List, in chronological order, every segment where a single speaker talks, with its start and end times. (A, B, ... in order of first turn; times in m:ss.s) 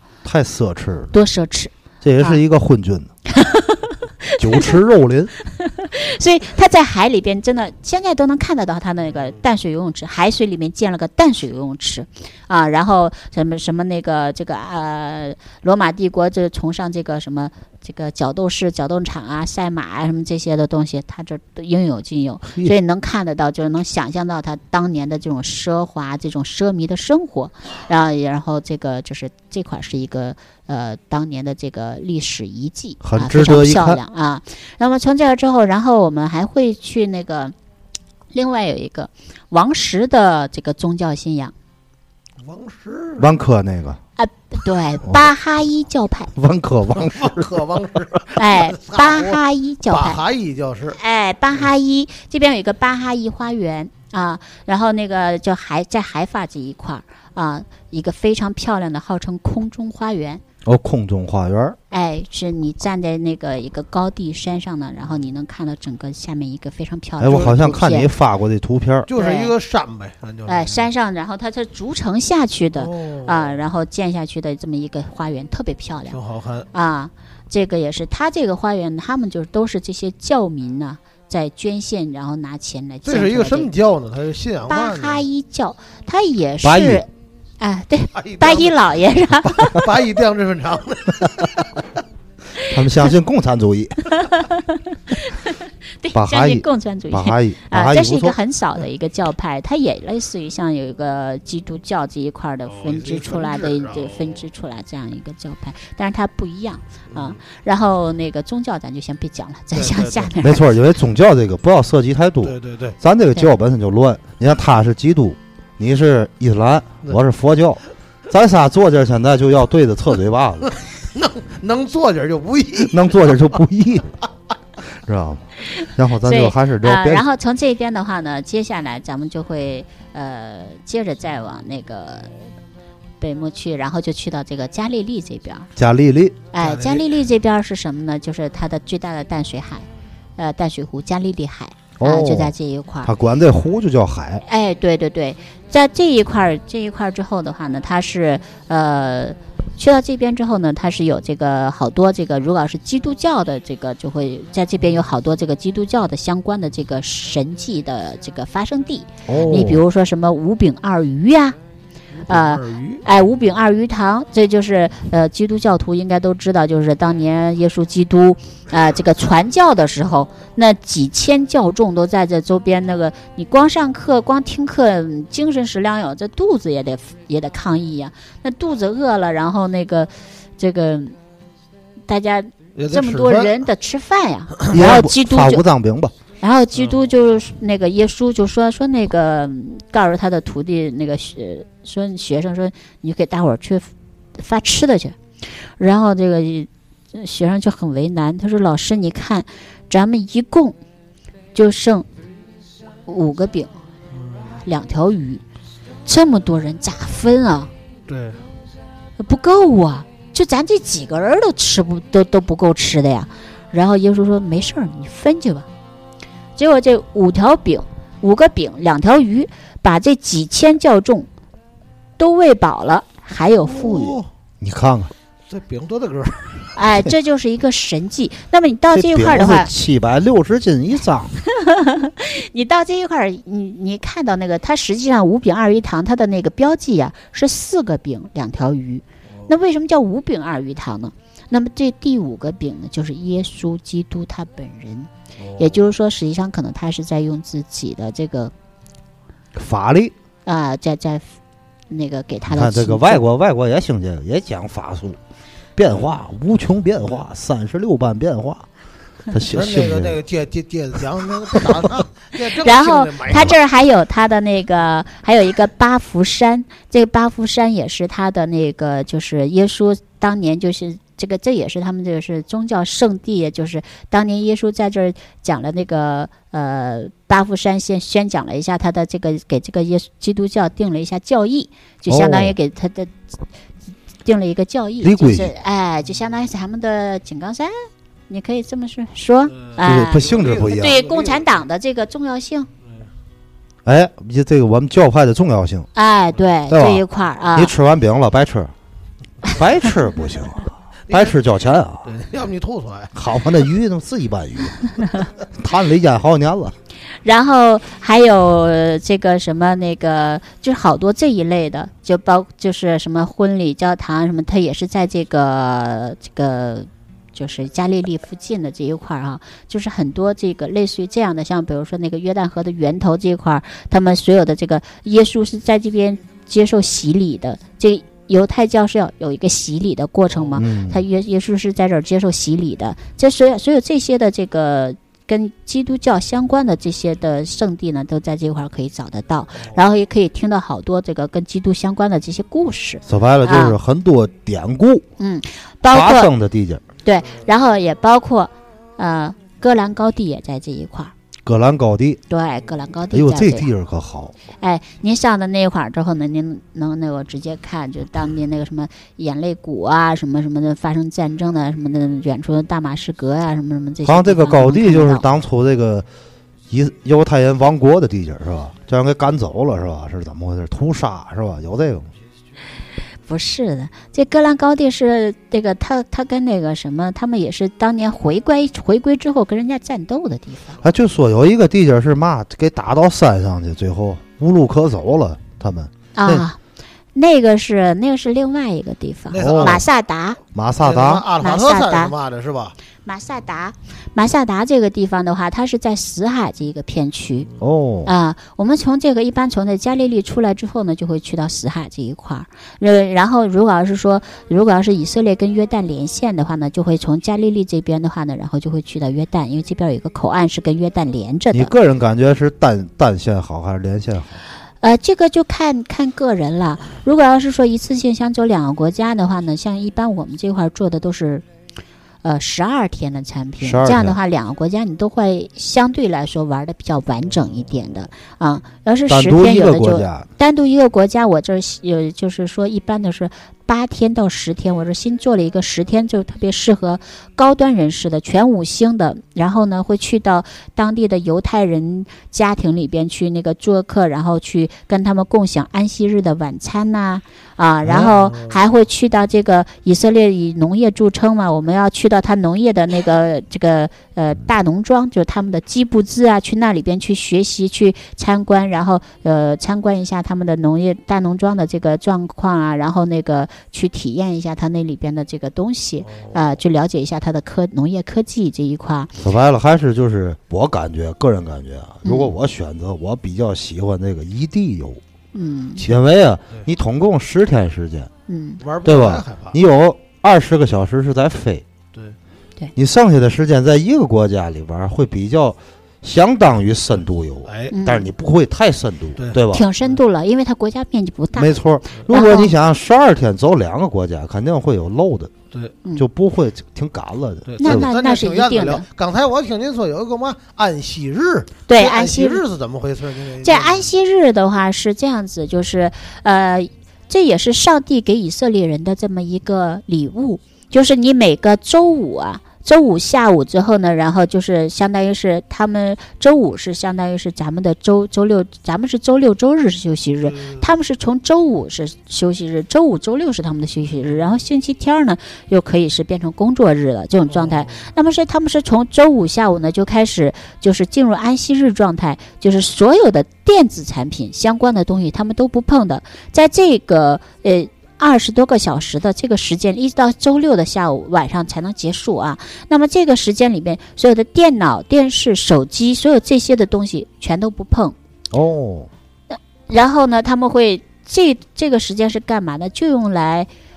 0:00.2-0:01.1 A
0:01.1-0:02.4 B
0:02.0-0:03.1 A
0:03.2-0:04.7 B
0:04.4-0:05.3 A
0:05.6-0:37.5 B
0:33.0-0:34.0 A
0:38.3-0:41.5 B
0:42.4-0:43.3 C
0:43.2-0:44.0 A
0:44.2-0:46.3 B
0:46.3-0:47.6 A
0:46.9-0:51.0 C
0:48.4-0:50.2 B
0:50.9-1:00.4 B
1:00.6-1:01.8 A
1:01.9-1:08.1 B
1:07.2-1:09.1 A
1:07.3-1:07.6 C
1:09.1-1:10.9 C
1:09.1-1:09.5 B
1:10.4-1:16.2 B
1:12.8-1:13.6 C
1:16.1-1:16.7 C
1:16.7-1:23.7 B
1:23.0-1:25.2 C
1:24.7-1:27.1 B
1:26.6-1:27.0 A
1:27.6-1:29.8 B
1:28.2-1:28.8 C
1:29.7-1:31.7 C
1:32.6-1:34.1 A
1:34.1-1:50.6 B
1:36.1-1:38.4 A
1:42.7-1:44.4 C
1:47.1-1:47.4 C
1:49.7-1:50.3 C
1:50.4-2:00.7 A
1:52.4-1:53.0 C
2:01.1-2:03.4 C
2:02.9-2:04.2 A
2:05.0-2:07.2 A
2:06.2-2:12.3 B
2:13.2-2:15.7 B
2:15.8-2:16.4 A
2:16.5-2:23.1 B
2:16.6-2:17.0 C
2:22.0-2:22.5 A
2:23.0-2:24.4 A
2:24.4-2:41.6 B
2:39.3-2:39.8 A
2:42.2-2:43.0 C
2:42.3-3:01.1 B
3:02.1-3:05.6 B
3:02.8-3:03.6 C
3:04.7-3:06.1 A
3:06.4-3:15.2 B
3:15.8-3:20.8 B
3:21.5-3:22.0 B
3:23.0-3:23.7 B
3:24.1-3:24.6 C
3:24.6-3:25.4 B
3:26.0-3:27.7 B
3:28.1-3:28.4 C
3:29.2-3:35.7 B
3:36.6-3:41.3 B
3:42.2-3:44.2 B
3:43.7-3:44.3 C
3:44.6-3:45.1 A
3:45.5-3:46.7 C
3:46.7-3:49.7 B
3:48.9-3:51.3 A
3:51.5-4:08.5 B
4:05.4-4:05.8 C
4:09.5-4:10.1 A
4:10.4-4:11.3 B
4:11.9-4:13.2 B
4:12.5-4:15.2 A
4:15.8-4:18.6 A
4:19.3-4:20.2 A
4:19.5-4:23.5 C
4:22.6-4:43.1 B
4:42.1-4:42.6 A
4:44.2-4:47.7 B
4:45.0-4:45.5 A
4:48.3-4:52.7 B
4:49.5-4:51.6 C
4:49.8-4:51.0 A
4:52.8-4:53.1 C
4:53.8-4:55.9 A
4:55.9-4:57.7 B
4:56.7-4:58.7 A
4:59.4-5:02.1 A
5:01.1-5:01.4 C
5:02.0-5:03.1 C
5:03.1-5:06.7 A
5:07.2-5:43.8 B
5:30.6-5:31.0 A
5:43.1-5:45.0 A
5:45.2-5:46.3 B
5:45.9-5:46.8 A
5:47.0-5:51.1 B
5:51.4-5:52.2 A
5:52.3-5:53.7 B
5:53.1-5:54.3 A
5:54.6-6:05.3 B
6:04.0-6:06.0 A
6:06.7-6:12.1 A
6:13.3-6:20.8 B
6:20.8-6:26.4 A
6:26.2-6:26.6 B
6:27.1-6:30.4 B
6:29.3-6:29.8 C
6:29.4-6:29.8 A
6:30.5-6:31.2 A
6:30.8-6:32.7 C
6:31.4-6:32.1 B
6:33.0-6:37.5 B
6:37.6-6:38.1 A
6:38.0-6:51.7 B
6:51.5-6:54.4 A
6:54.8-7:01.4 B
7:02.2-7:49.1 B
7:03.6-7:04.2 A
7:09.1-7:10.3 A
7:27.9-7:28.6 C
7:46.1-7:46.4 C
7:49.2-7:55.0 A
7:52.0-7:52.3 B
7:55.3-7:55.8 B
7:55.8-7:58.1 A
7:58.3-7:58.6 B
7:58.6-7:59.6 C
7:58.8-8:01.6 A
8:02.7-8:09.7 A
8:07.4-8:07.7 C
8:07.7-8:08.1 B
8:09.2-8:09.4 C
8:09.5-8:11.6 B
8:11.3-8:15.3 A
8:12.1-8:12.5 B
8:16.0-8:17.9 A
8:17.5-8:23.9 C
8:17.6-8:18.9 B
8:21.7-8:22.4 B
8:23.4-9:07.9 B
8:40.3-8:40.6 C
8:47.3-8:47.9 C
9:08.3-9:08.9 A
9:09.3-9:13.5 B